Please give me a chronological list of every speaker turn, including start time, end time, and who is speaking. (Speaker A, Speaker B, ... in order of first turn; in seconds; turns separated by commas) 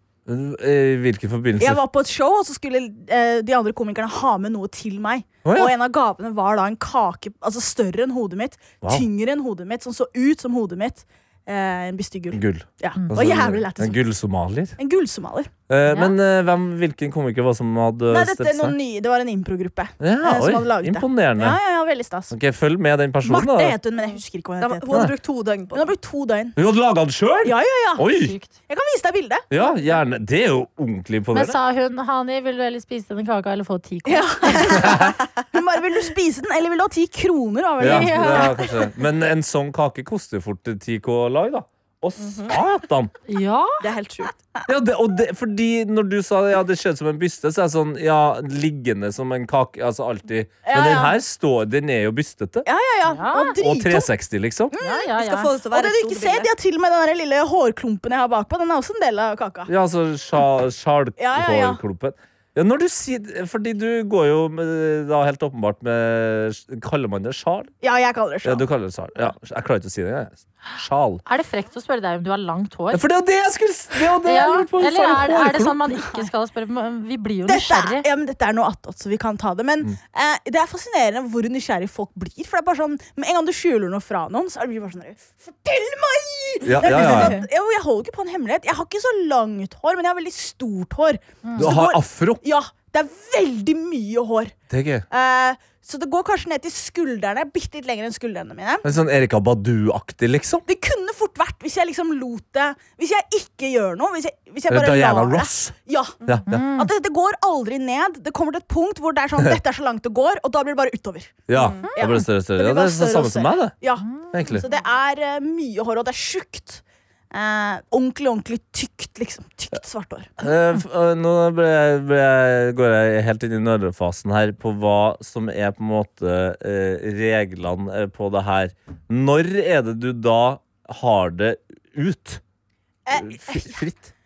Speaker A: 0.3-1.8, Speaker B: 1.6-14.0, Speaker A: 5.5-5.7, Speaker A: 12.3-14.8, Speaker B: 14.8-15.5, Speaker A: 15.7-18.8, Speaker C: 15.9-16.1, Speaker B: 18.1-22.3, Speaker A: 20.0-21.6, Speaker A: 22.3-23.8, Speaker B: 23.2-24.9, Speaker D: 24.1-25.9, Speaker B: 25.7-26.6, Speaker A: 26.6-28.4, Speaker B: 27.4-28.1, Speaker C: 28.1-28.5, Speaker B: 28.7-29.5, Speaker A: 29.5-31.6, Speaker C: 31.3-34.8, Speaker B: 34.1-35.0, Speaker A: 34.7-35.2, Speaker B: 35.5-38.7, Speaker A: 37.8-43.1, Speaker C: 37.8-38.6, Speaker D: 42.2-42.6, Speaker C: 43.3-43.8, Speaker D: 43.8-44.4, Speaker A: 44.7-52.7, Speaker B: 50.6-51.2, Speaker B: 52.7-54.1, Speaker C: 53.0-53.5, Speaker A: 53.6-54.7, Speaker B: 54.7-55.1, Speaker C: 54.8-55.5, Speaker D: 55.2-56.5, Speaker B: 55.7-59.7, Speaker A: 59.7-67.7, Speaker B: 61.2-61.8, Speaker B: 67.8-68.7, Speaker A: 68.4-71.2, Speaker C: 71.3-73.0, Speaker A: 72.9-75.8, Speaker C: 74.2-78.1, Speaker B: 76.0-76.3, Speaker B: 77.5-94.5, Speaker A: 86.6-87.4, Speaker C: 86.8-87.5, Speaker C: 91.4-91.7, Speaker A: 91.6-92.4, Speaker A: 94.7-95.0, Speaker B: 95.1-98.9, Speaker A: 98.8-100.7, Speaker B: 100.7-106.2, Speaker A: 104.7-106.7, Speaker C: 106.5-106.9, Speaker B: 106.7-111.4, Speaker A: 111.5-113.8, Speaker D: 111.5-111.9, Speaker B: 112.0-120.3, Speaker C: 114.0-114.6, Speaker A: 114.3-114.7, Speaker A: 120.4-132.4, Speaker B: 133.1-133.8, Speaker A: 133.1-134.1